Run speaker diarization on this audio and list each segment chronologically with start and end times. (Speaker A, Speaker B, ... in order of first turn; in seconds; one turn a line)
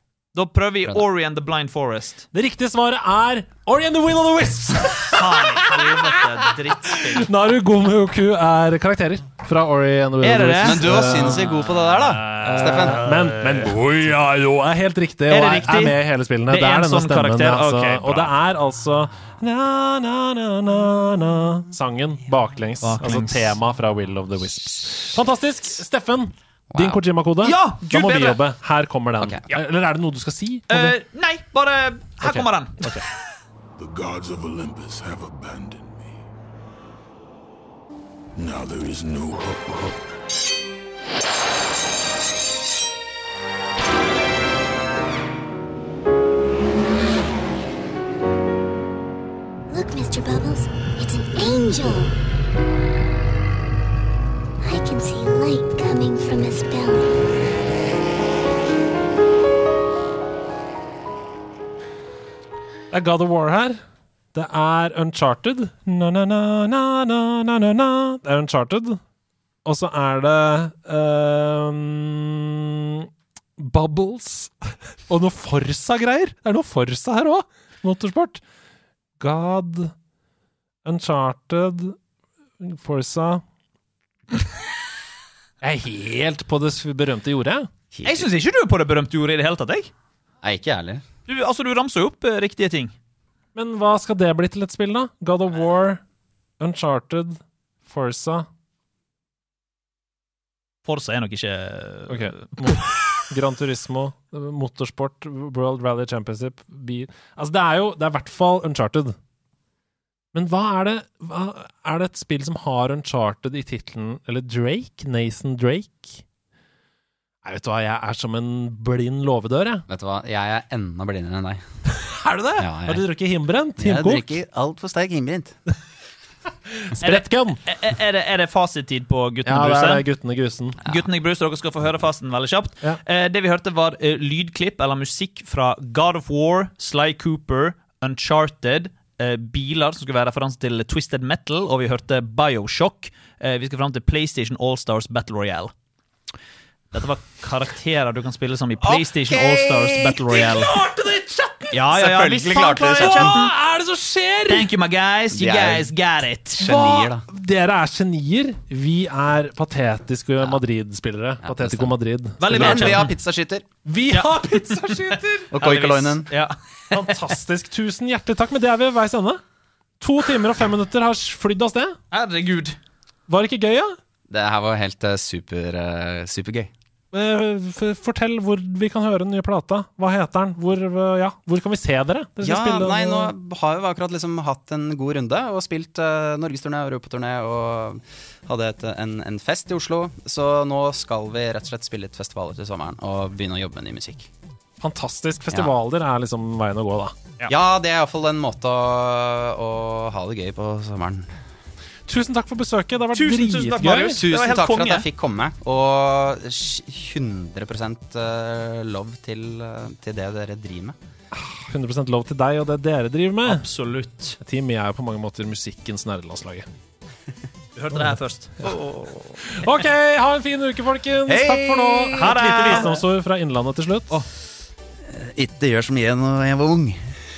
Speaker A: 0.3-2.2
Speaker B: 2.3-6.0
Speaker A: 5.1-7.3
Speaker B: 7.0-11.4
Speaker A: 10.2-13.7
Speaker C: 10.6-13.1
Speaker B: 12.4-31.0
Speaker A: 15.3-18.3
Speaker A: 22.8-23.6
Speaker C: 26.7-27.0
Speaker A: 27.4-28.4
Speaker A: 30.7-32.9
Speaker B: 32.2-33.0
Speaker D: 33.8-36.2
Speaker D: 38.4-40.1
Speaker E: 49.7-52.2
Speaker E: 54.6-57.3
Speaker B: 62.9-63.8
Speaker B: 64.3-69.0
Speaker B: 69.7-74.5
Speaker B: 75.1-78.4
Speaker B: 79.2-79.9
Speaker B: 80.8-82.0
Speaker B: 82.6-83.4
Speaker B: 85.6-87.7
Speaker C: 87.9-88.3
Speaker A: 88.0-89.9
Speaker C: 90.4-91.0
Speaker A: 91.3-92.9
Speaker B: 93.5-96.0
Speaker B: 96.6-98.5
Speaker A: 100.9-102.9
Speaker B: 102.1-109.2
Speaker B: 110.3-116.2
Speaker B: 117.4-119.8
Speaker C: 119.9-121.6
Speaker B: 121.9-124.3
Speaker C: 122.6-123.0
Speaker C: 123.8-125.6
Speaker B: 126.8-127.6
Speaker A: 127.0-130.1
Speaker B: 129.5-130.8
Speaker A: 130.8-145.7
Speaker A: 146.9-150.8
Speaker C: 148.8-150.7
Speaker B: 150.7-151.8
Speaker A: 151.7-153.5
Speaker C: 151.9-153.5
Speaker B: 152.6-154.7
Speaker A: 154.5-157.1
Speaker C: 155.3-155.9
Speaker C: 156.6-157.2
Speaker B: 157.3-163.1
Speaker C: 161.4-163.7
Speaker A: 162.4-163.1
Speaker B: 163.9-165.5
Speaker A: 164.1-167.2
Speaker C: 165.5-166.3
Speaker B: 166.9-169.4
Speaker B: 170.0-172.0
Speaker A: 172.1-172.8
Speaker B: 173.3-174.0
Speaker C: 174.3-176.7
Speaker B: 177.1-183.3
Speaker C: 182.4-194.3
Speaker B: 194.8-197.1
Speaker C: 197.5-201.3
Speaker B: 202.1-204.2
Speaker A: 203.1-205.1
Speaker C: 203.8-211.0
Speaker B: 211.5-213.7
Speaker A: 213.4-214.4
Speaker B: 214.4-216.7
Speaker A: 217.8-218.7
Speaker C: 218.6-219.4
Speaker B: 219.4-224.2
Speaker C: 221.3-222.9
Speaker A: 222.1-223.0
Speaker C: 225.1-227.1